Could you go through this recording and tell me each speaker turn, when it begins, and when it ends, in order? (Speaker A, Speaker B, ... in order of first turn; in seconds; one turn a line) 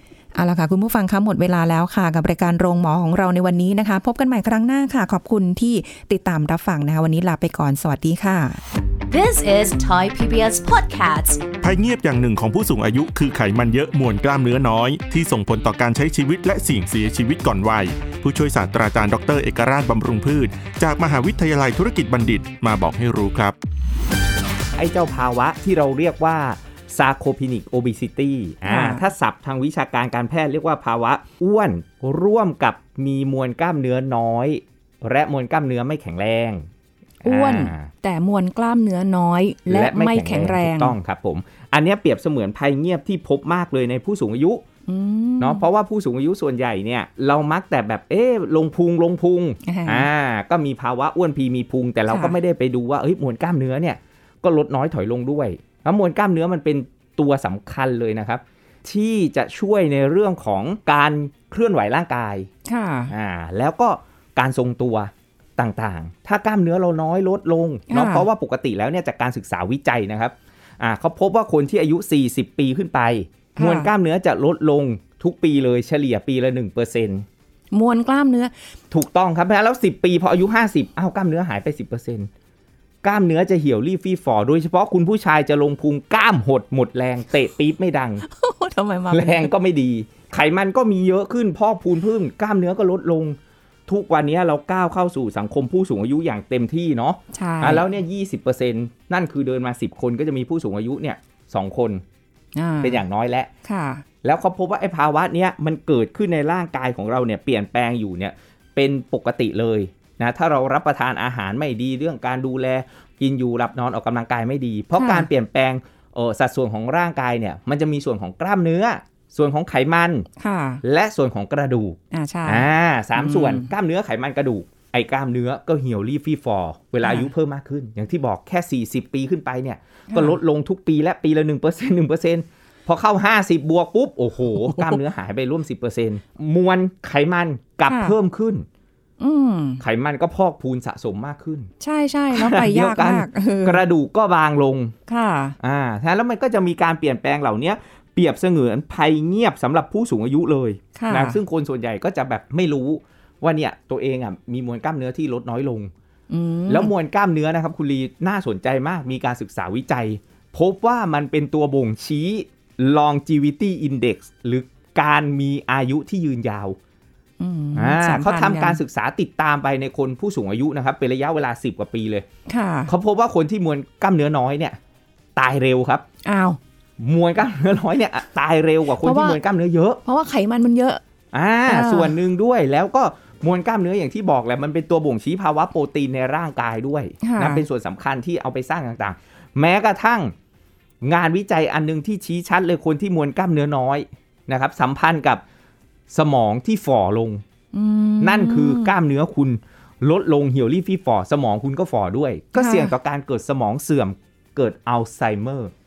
Speaker A: 0.3-8.6
Speaker B: 9.1-11.5
Speaker C: 11.6-23.5
Speaker D: 24.8-36.7
Speaker A: 28.6-29.1
Speaker D: 37.2-37.9
Speaker A: 37.2-40.9
Speaker D: 39.7-44.6
Speaker A: 44.9-45.6
Speaker D: 45.4-62.5
Speaker A: 49.6-50.1
Speaker A: 52.1-52.3
Speaker A: 62.6-63.1
Speaker D: 63.1-77.2
Speaker A: 67.9-68.2
Speaker A: 73.6-73.9
Speaker A: 77.7-78.5
Speaker D: 78.9-82.3
Speaker D: 83.0-88.2
Speaker A: 88.3-89.5
Speaker D: 89.1-102.0
Speaker A: 97.3-97.8
Speaker A: 102.5-103.0
Speaker D: 102.8-103.5
Speaker A: 103.6-104.0
Speaker D: 104.2-120.3
Speaker A: 114.9-115.3
Speaker A: 120.4-120.8
Speaker D: 120.8-138.7
Speaker A: 122.1-123.7
Speaker A: 127.0-127.3
Speaker A: 130.1-130.4
Speaker A: 134.6-135.0
Speaker A: 137.9-138.2
Speaker A: 139.2-139.8
Speaker D: 139.8-141.7
Speaker A: 141.8-143.8
Speaker D: 142.3-144.9
Speaker A: 145.1-145.6
Speaker D: 145.6-155.9
Speaker A: 150.9-151.4
Speaker A: 156.3-156.9
Speaker D: 156.7-166.8
Speaker A: 167.4-168.8
Speaker D: 167.8-172.2
Speaker A: 172.5-172.9
Speaker D: 172.9-174.8
Speaker D: 175.3-176.0
Speaker A: 176.2-176.6
Speaker D: 177.0-180.0
Speaker A: 179.0-179.4
Speaker A: 180.0-181.0
Speaker D: 181.3-190.3
Speaker A: 181.7-182.1
Speaker A: 187.2-187.6
Speaker D: 191.0-195.4
Speaker D: 196.1-197.4
Speaker A: 197.7-198.9
Speaker D: 198.2-205.7
Speaker A: 202.5-202.9